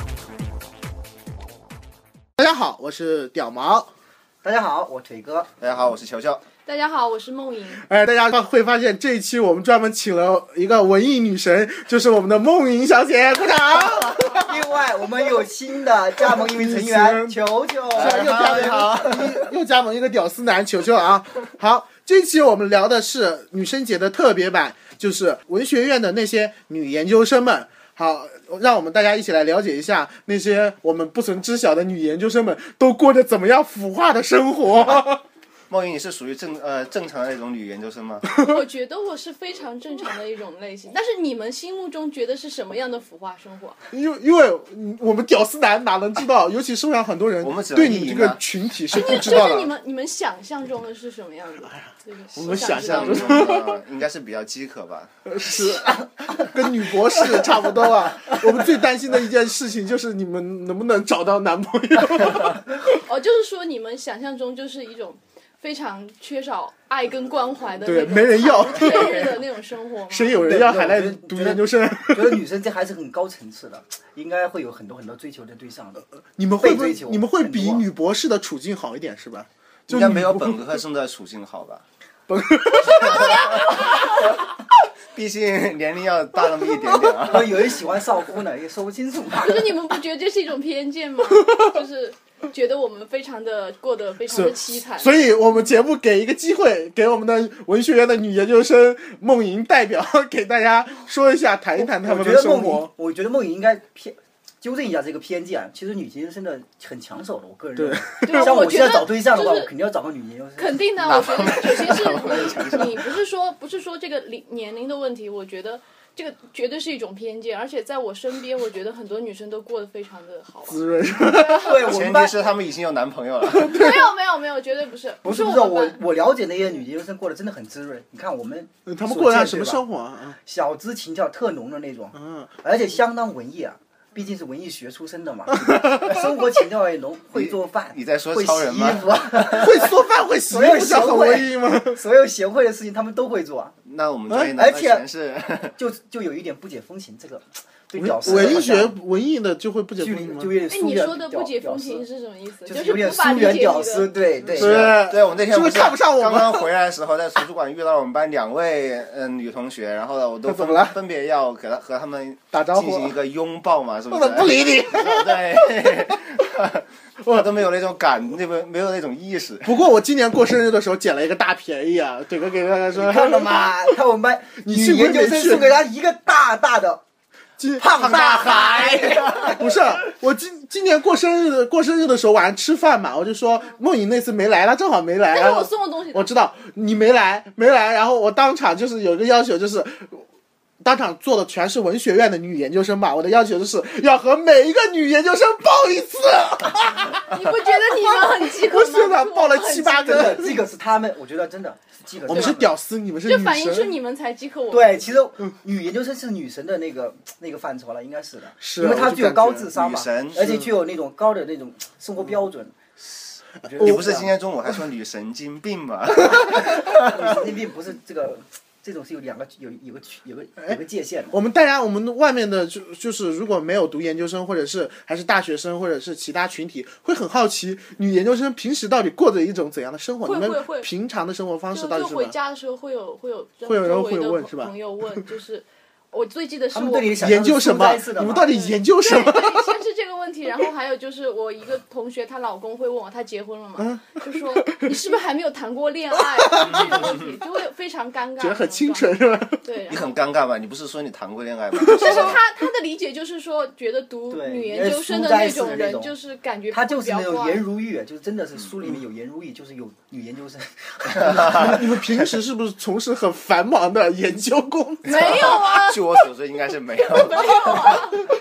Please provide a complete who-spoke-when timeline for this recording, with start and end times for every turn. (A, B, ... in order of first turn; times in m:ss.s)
0:02.4-0:03.9 A
0:04.4-0:05.5 B
0:05.6-0:06.4 C
0:06.6-0:07.8 D
0:07.8-0:14.6 A
0:14.4-0:18.9 B
0:16.2-0:17.4 A
0:17.9-0:19.5 C
0:17.9-0:35.2 A
0:35.7-0:38.3 C
0:38.3-0:38.6 A
0:38.3-0:43.8 D
0:43.9-0:49.7 A
0:47.4-0:48.4 C
0:48.9-0:53.7 D
0:51.6-0:53.8 A
0:52.4-0:55.1 C
0:55.2-1:02.8 A
1:02.8-1:10.5 D
1:07.8-1:09.4 A
1:10.1-1:12.4 A
1:10.4-1:16.0 B
1:16.4-1:20.6 A
1:16.6-1:17.8 B
1:19.9-1:21.8 C
1:22.3-1:23.8 A
1:22.8-1:24.4 D
1:25.1-1:27.8 C
1:27.2-1:29.7 B
1:29.4-1:35.2 D
1:31.3-1:31.7 A
1:34.3-1:42.9 A
1:41.8-1:51.1 B
1:47.8-1:48.6 A
1:48.2-1:49.7 D
1:50.6-2:01.9 D
1:51.0-1:53.1 C
2:00.7-2:01.8 A
2:01.6-2:02.4 B
2:01.8-2:03.8 C
2:03.5-2:04.1 A
2:03.5-2:06.0 D
2:05.2-2:09.8 B
2:08.8-2:10.4 A
2:10.4-2:19.9 B
2:12.2-2:12.5 A
2:15.5-2:16.3 A
2:17.3-2:19.6 C
2:19.5-2:22.0 A
2:20.5-2:23.7 B
2:23.8-2:25.7 C
2:24.6-2:25.0 B
2:25.8-2:29.0 B
2:28.0-2:30.5 A
2:28.2-2:28.7 C
2:30.0-2:32.0 B
2:30.7-2:34.1 D
2:32.6-2:35.0 B
2:34.5-2:49.8 C
2:34.5-2:36.7 A
2:40.4-2:41.0 A
2:42.5-2:43.2 A
2:44.1-2:46.2 A
2:49.6-2:54.0 A
2:52.9-2:57.0 B
2:54.6-2:55.8 A
2:57.6-3:10.2 A
2:57.8-2:59.6 B
2:58.7-2:59.6 C
3:05.3-3:06.3 D
3:10.8-3:20.6 A
3:17.3-3:20.4 D
3:20.0-3:22.7 B
3:22.3-3:23.9 A
3:23.2-3:25.2 D
3:24.7-3:33.0 B
3:28.6-3:29.7 A
3:29.7-3:30.5 C
3:30.4-3:30.7 A
3:33.6-3:34.3 B
3:33.8-3:37.0 C
3:36.6-3:41.3 B
3:41.3-3:52.4 A
3:50.2-3:50.9 D
3:51.7-3:57.2 D
3:53.6-3:54.7 A
3:56.7-3:58.5 B
3:57.2-3:59.8 A
3:58.3-4:10.2 D
4:03.8-4:04.9 A
4:06.4-4:07.1 A
4:06.8-4:07.2 C
4:08.4-4:09.6 A
4:09.9-4:12.4 C
4:11.8-4:12.4 A
4:11.8-4:17.6 D
4:14.3-4:16.1 B
4:16.7-4:22.0 B
4:21.3-4:25.6 A
4:25.0-4:26.2 D
4:25.1-4:28.0 C
4:27.0-4:28.3 D